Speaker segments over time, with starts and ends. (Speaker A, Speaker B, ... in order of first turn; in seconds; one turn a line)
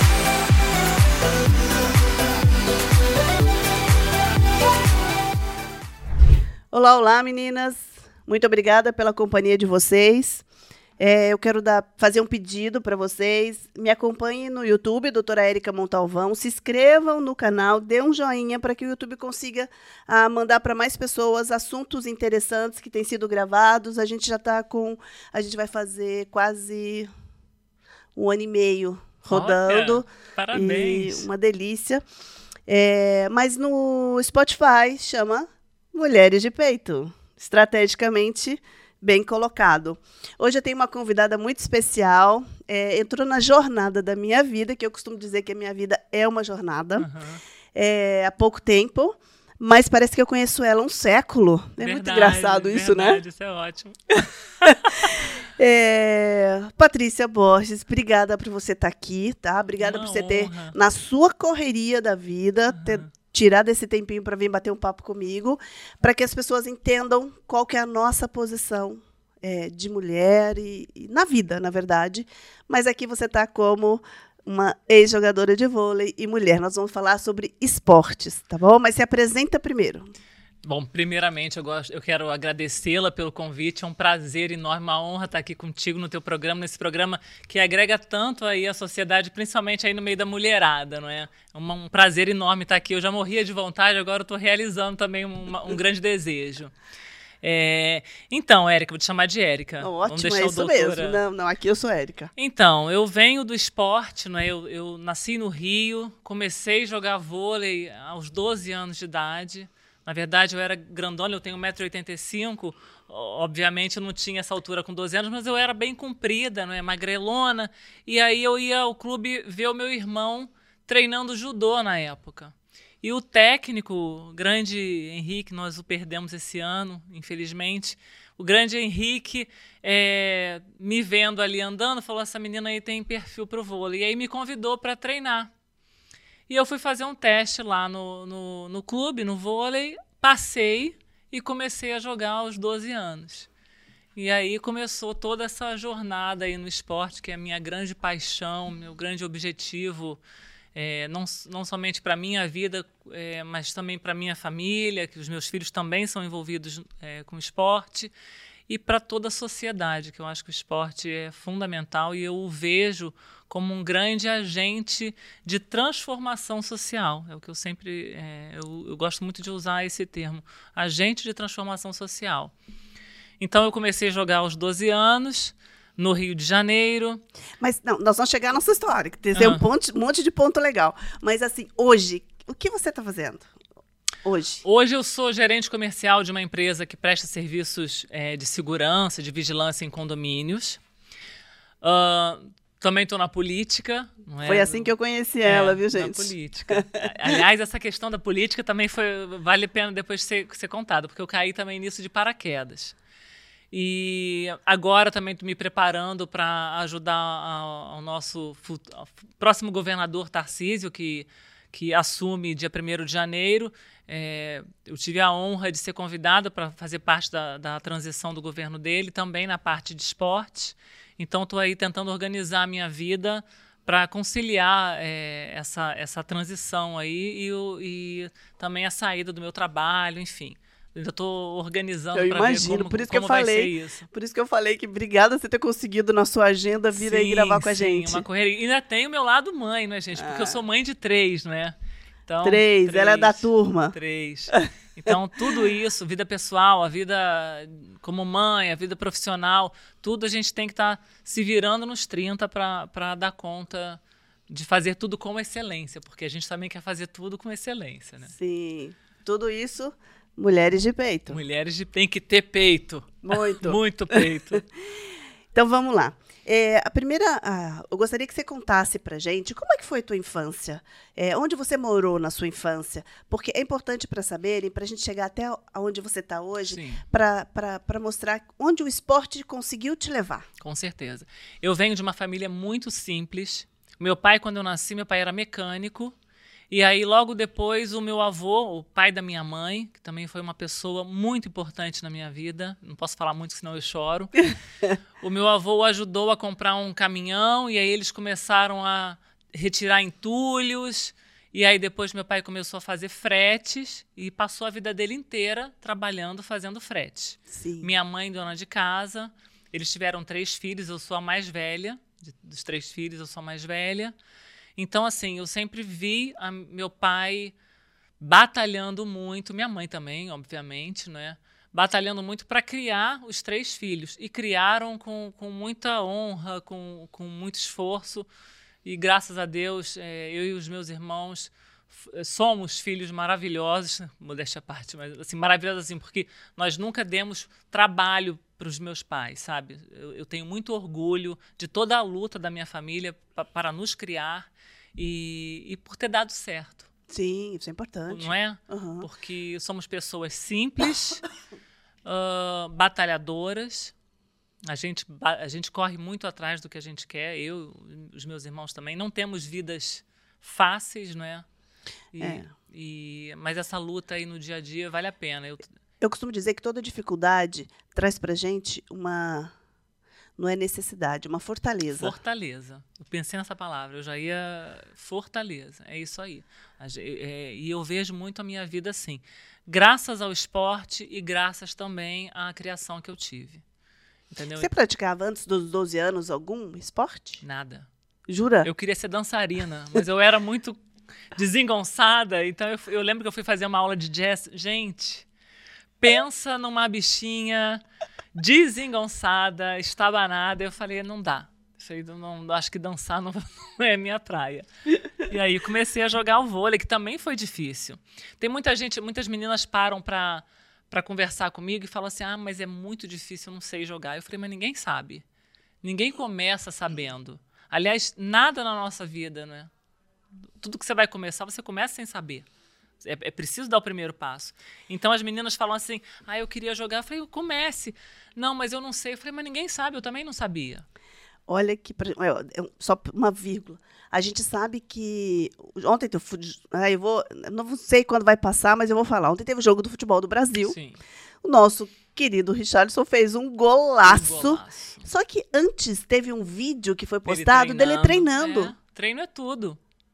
Speaker A: 6.7-10.4
Speaker A: 11.0-27.1
Speaker A: 28.1-32.0
Speaker B: 29.3-31.3
Speaker A: 32.7-47.1
Speaker B: 47.0-47.4
Speaker A: 47.7-53.2
Speaker B: 51.8-55.2
Speaker A: 54.7-80.1
Speaker B: 59.8-60.7
Speaker B: 62.7-63.1
Speaker B: 80.6-96.7
Speaker B: 97.4-101.2
Speaker A: 99.8-102.3
Speaker B: 102.3-135.5
Speaker B: 136.5-143.5
Speaker B: 144.2-150.2
Speaker B: 150.7-158.1
Speaker B: 158.7-172.5
Speaker B: 173.4-177.2
Speaker A: 177.6-183.5
Speaker B: 179.3-179.6
Speaker A: 184.2-184.6
Speaker B: 184.6-190.8
Speaker B: 191.8-194.9
Speaker A: 194.4-197.4
Speaker B: 195.4-202.9
Speaker B: 203.7-234.1
Speaker A: 232.1-238.2
Speaker B: 236.9-241.7
Speaker A: 240.1-240.6
Speaker B: 242.3-258.3
Speaker A: 242.4-243.9
Speaker A: 258.2-261.4
Speaker B: 261.3-264.6
Speaker A: 263.2-264.6
Speaker A: 265.5-280.5
Speaker B: 276.7-277.0
Speaker B: 280.6-286.1
Speaker B: 286.7-294.5
Speaker B: 295.2-314.1
Speaker A: 307.5-307.9
Speaker B: 314.8-317.5
Speaker B: 318.2-328.3
Speaker B: 328.8-346.9
Speaker A: 347.1-349.1
Speaker B: 348.1-351.2
Speaker B: 352.0-353.9
Speaker B: 354.6-361.4
Speaker B: 362.1-365.7
Speaker A: 362.2-362.5
Speaker A: 366.0-369.5
Speaker A: 370.4-372.1
Speaker B: 371.9-383.6
Speaker B: 384.3-384.7
Speaker A: 384.6-387.4
Speaker B: 387.4-387.9
Speaker A: 388.3-388.7
Speaker B: 388.6-390.8
Speaker B: 391.3-395.3
Speaker B: 396.0-397.8
Speaker B: 398.3-404.7
Speaker B: 405.2-415.2
Speaker B: 415.8-419.7
Speaker B: 420.6-422.5
Speaker B: 423.0-430.8
Speaker A: 431.5-440.7
Speaker B: 440.6-441.0
Speaker A: 441.4-448.7
Speaker B: 444.0-445.1
Speaker B: 447.2-449.8